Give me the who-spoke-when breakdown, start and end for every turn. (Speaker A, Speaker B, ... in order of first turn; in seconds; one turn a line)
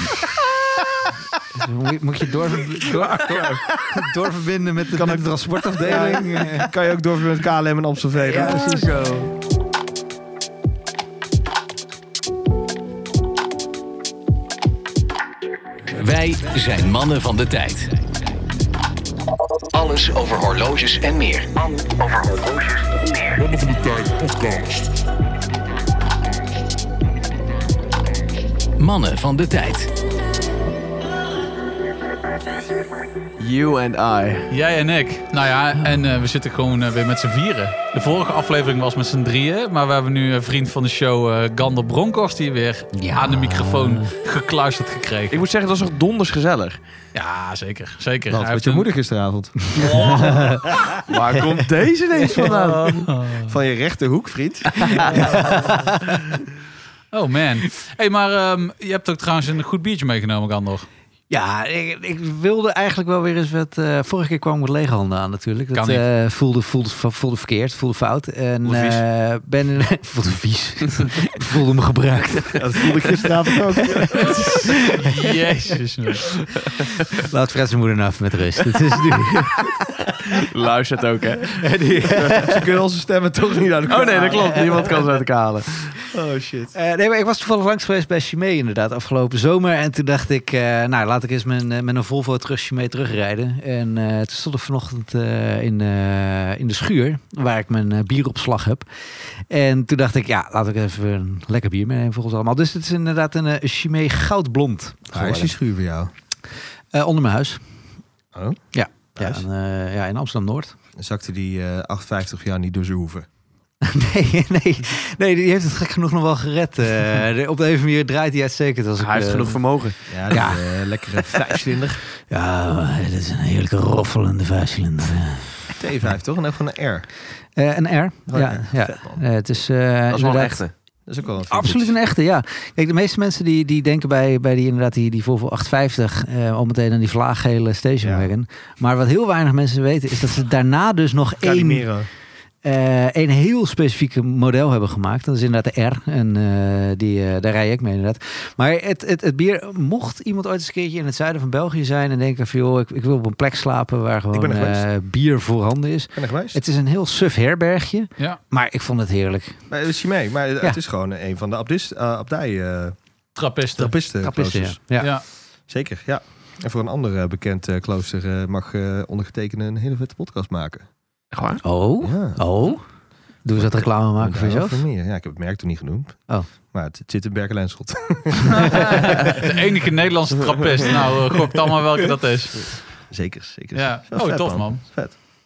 Speaker A: 1.5-6.7
Speaker B: 2.9-3.6
Speaker C: 4.9-8.7
Speaker A: 8.2-9.3
Speaker B: 8.3-9.3
Speaker D: 15.9-17.9
Speaker D: 19.7-24.8
Speaker D: 28.8-29.9
Speaker B: 33.4-34.5
Speaker E: 34.5-45.4
Speaker A: 42.9-44.1
Speaker B: 45.3-46.8
Speaker E: 47.1-48.9
Speaker C: 48.3-51.0
Speaker A: 49.7-50.6
Speaker E: 49.7-50.5
Speaker B: 51.0-53.1
Speaker E: 52.4-53.5
Speaker C: 53.3-55.3
Speaker B: 54.8-55.2
Speaker A: 54.9-56.2
Speaker E: 57.1-60.9
Speaker A: 61.3-75.1
Speaker E: 65.7-66.0
Speaker B: 68.7-69.0
Speaker C: 72.5-74.3
Speaker E: 74.8-76.3
Speaker A: 77.1-79.5
Speaker B: 80.3-81.7
Speaker A: 81.6-82.6
Speaker C: 82.2-85.0
Speaker B: 83.9-85.9
Speaker A: 84.1-85.0
Speaker C: 86.1-86.7
Speaker A: 86.7-105.5
Speaker C: 105.1-106.1
Speaker A: 106.9-107.6
Speaker C: 108.3-108.6
Speaker A: 108.7-110.7
Speaker C: 109.2-109.4
Speaker C: 111.0-113.3
Speaker A: 113.8-119.6
Speaker B: 119.0-120.0
Speaker C: 120.1-122.0
Speaker A: 120.3-121.5
Speaker A: 122.3-125.7
Speaker C: 125.8-127.1
Speaker A: 127.5-130.6
Speaker C: 128.3-129.2
Speaker B: 130.1-130.7
Speaker C: 131.1-131.9
Speaker A: 131.4-141.9
Speaker C: 138.0-138.3
Speaker C: 141.4-142.1
Speaker A: 142.6-159.6
Speaker C: 154.3-154.9
Speaker C: 156.1-156.6
Speaker C: 159.7-162.9
Speaker E: 163.3-163.9
Speaker C: 163.7-164.8
Speaker A: 164.2-165.1
Speaker C: 165.7-170.9
Speaker B: 171.3-171.6
Speaker A: 171.6-172.8
Speaker C: 172.0-172.4
Speaker A: 173.4-174.8
Speaker C: 173.5-179.5
Speaker E: 178.5-182.8
Speaker C: 183.1-185.1
Speaker E: 183.7-184.8